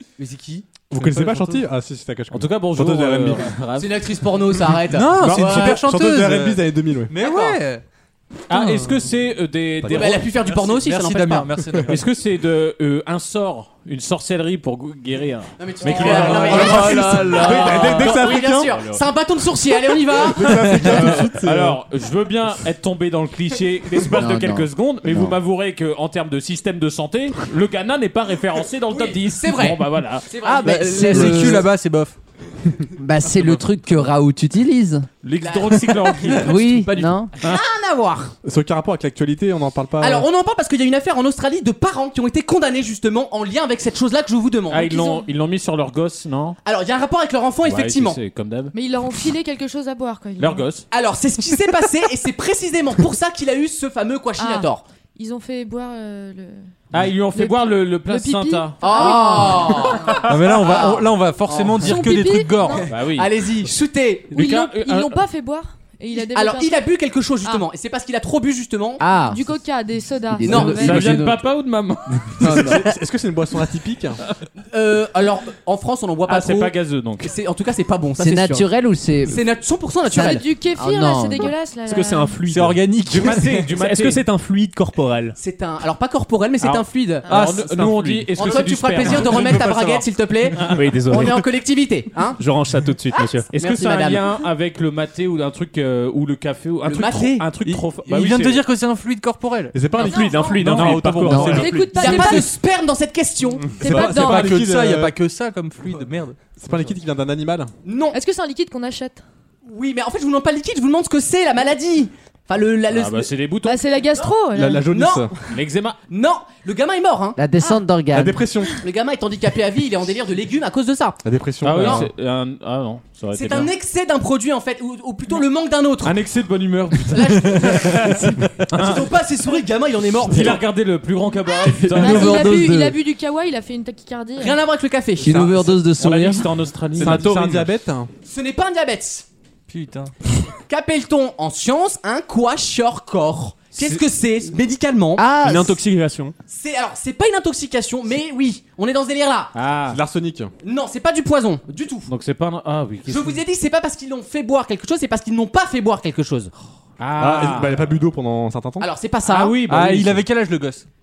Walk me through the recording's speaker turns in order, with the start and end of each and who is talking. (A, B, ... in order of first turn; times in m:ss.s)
0:00.2-0:00.7 A
0:00.9-0:03.6 B
0:00.9-0:01.7 C
0:02.3-0:04.1 D
0:03.8-0:05.9 A
0:04.9-0:07.8 C
0:05.0-0:07.2 B
0:07.2-0:07.6 A
0:08.5-0:10.3 D
0:08.5-0:08.9 C
0:09.9-0:11.6 A
0:09.9-0:12.0 C
0:11.9-0:19.0 D
0:15.6-0:21.2 A
0:16.0-0:17.4 C
0:16.4-0:18.8 B
0:20.1-0:21.8 B
0:20.4-0:30.3 D
0:24.1-0:25.4 E
0:28.9-0:31.7 A
0:30.4-0:31.7 E
0:30.8-0:32.2 C
0:33.0-0:35.1 E
0:35.2-0:37.6 D
0:35.4-0:38.3 A
0:36.4-0:37.3 E
0:38.4-0:40.3 B
0:40.0-0:45.2 A
0:44.7-0:46.6 D
0:46.6-0:48.2 A
0:47.6-0:48.7 D
0:48.7-0:50.6 F
0:50.4-0:50.9 D
0:50.9-0:54.8 A
0:54.4-0:56.7 F
0:56.9-0:58.8 D
0:57.4-1:00.2 F
0:58.8-1:02.1 A
1:00.3-1:02.9 C
1:01.8-1:02.9 F
1:02.8-1:04.3 A
1:02.9-1:03.3 D
1:04.3-1:05.2 D
1:04.3-1:06.8 F
1:06.1-1:09.1 A
1:09.0-1:09.5 E
1:09.3-1:11.2 F
1:10.3-1:11.4 E
1:10.5-1:11.1 A
1:10.5-1:12.7 D
1:12.4-1:12.9 E
1:12.4-1:12.8 A
1:12.4-1:14.2 B
1:14.7-1:18.6 A
1:16.3-1:17.3 D
1:18.2-1:19.4 E
1:19.3-1:20.4 A
1:20.1-1:21.5 E
1:20.1-1:22.4 F
1:21.8-1:22.8 G
1:22.5-1:23.7 C
1:23.1-1:24.2 D
1:23.7-1:25.4 G
1:25.4-1:27.4 A
1:26.6-1:29.7 D
1:27.3-1:28.2 C
1:27.6-1:28.3 G
1:28.4-1:32.4 A
1:29.2-1:29.6 C
1:29.3-1:30.0 B
1:30.6-1:31.4 G
1:32.4-1:33.5 G
1:33.5-1:38.7 D
1:33.5-1:34.3 A
1:36.8-1:37.5 A
1:37.6-1:39.8 C
1:39.7-1:41.1 B
1:40.0-1:40.6 F
1:40.0-1:42.0 G
1:40.1-1:40.5 A
1:40.6-1:42.2 C
1:41.2-1:41.7 E
1:41.4-1:42.5 F
1:41.9-1:43.8 A
1:43.7-1:45.2 B
1:43.8-1:44.5 F
1:43.9-1:46.4 C
1:46.5-1:47.7 B
1:47.8-1:48.2 A
1:48.1-1:49.2 F
1:49.7-1:53.3 A
1:52.9-1:53.8 D
1:53.6-1:54.9 F
1:54.2-1:55.3 A
1:54.5-1:55.3 B
1:55.5-1:56.0 D
1:56.1-1:57.4 A
1:57.4-1:58.4 E
1:58.1-1:58.8 B
1:58.8-2:02.0 A
2:01.2-2:02.1 B
2:01.6-2:03.7 D
2:03.3-2:06.2 A
2:06.0-2:09.1 D
2:07.1-2:10.6 A
2:10.2-2:12.6 D
2:11.6-2:13.0 E
2:12.0-2:14.6 F
2:14.4-2:15.5 A
2:15.2-2:16.5 E
2:16.0-2:17.3 D
2:17.0-2:18.1 B
2:17.0-2:17.7 C
2:18.2-2:19.2 A
2:19.7-2:20.1 C
2:20.7-2:25.2 A
2:25.2-2:25.8 E
2:25.4-2:26.3 G
2:26.5-2:29.5 A
2:29.5-2:30.0 D
2:29.9-2:30.5 B
2:30.6-2:32.1 A
2:32.1-2:33.4 D
2:33.0-2:36.5 A
2:37.0-2:37.9 D
2:37.2-2:38.9 B
2:38.8-2:39.6 A
2:39.3-2:40.2 D
2:39.7-2:40.9 C